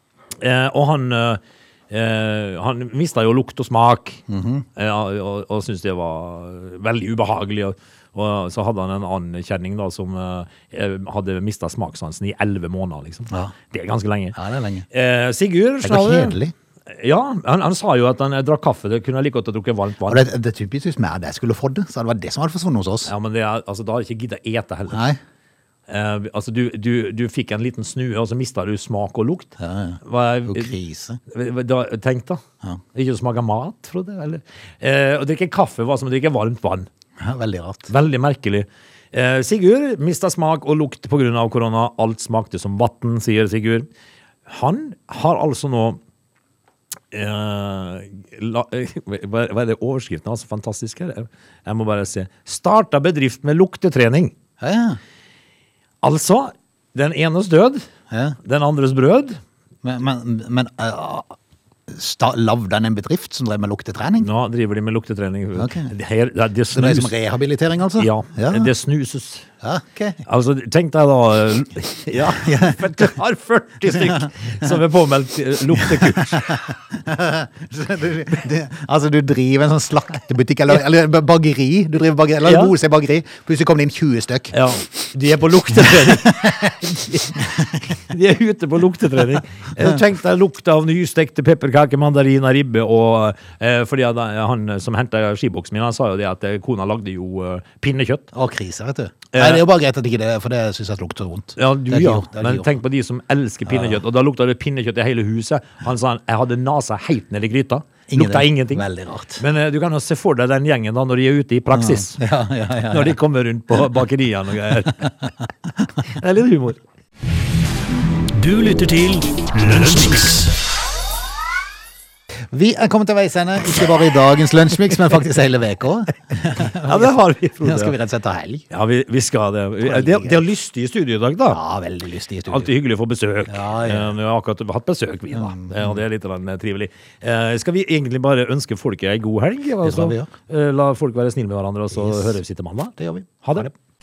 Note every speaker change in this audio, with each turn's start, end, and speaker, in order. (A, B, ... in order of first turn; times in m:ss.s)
0:00.4-0:04.2 A
0:04.3-0:04.6 B
0:04.8-0:14.4 A
0:14.3-0:14.8 B
0:14.9-0:16.4 A
0:15.8-0:16.5 B
0:16.9-0:20.2 A
0:20.0-0:23.1 B
0:23.0-0:25.0 A
0:24.9-0:25.2 B
0:25.9-0:30.7 A
0:29.6-0:31.2 B
0:31.3-0:32.4 A
0:32.9-0:36.9 A
0:37.2-0:37.9 B
0:37.9-0:43.9 A
0:44.5-0:46.0 A
0:47.1-0:54.3 A
0:54.6-0:55.0 B
0:56.0-0:57.8 A
0:58.1-0:58.4 B
0:58.4-0:59.4 A
0:59.8-1:01.3 B
1:01.9-1:04.3 B
1:04.2-1:07.1 A
1:05.6-1:05.9 B
1:06.7-1:08.7 B
1:08.0-1:09.4 A
1:09.6-1:10.2 B
1:10.2-1:16.6 A
1:12.4-1:13.1 B
1:15.9-1:24.6 B
1:22.4-1:22.7 A
1:24.5-1:27.4 A
1:25.8-1:26.8 B
1:28.0-1:38.3 A
1:38.3-1:42.7 B
1:39.3-1:39.6 A
1:41.6-1:48.8 A
1:43.7-1:44.0 B
1:48.1-1:49.4 B
1:49.4-1:52.2 A
1:51.7-1:53.2 B
1:52.9-1:55.3 A
1:56.0-1:56.8 A
1:58.3-2:00.6 C
2:02.5-2:08.6 B
2:06.5-2:07.9 A
2:08.7-2:11.6 A
2:09.8-2:10.4 B
2:11.5-2:12.7 B
2:12.5-2:23.7 A
2:13.5-2:14.1 B
2:15.3-2:16.0 B
2:19.8-2:20.3 B
2:21.9-2:22.3 B
2:23.0-2:23.7 B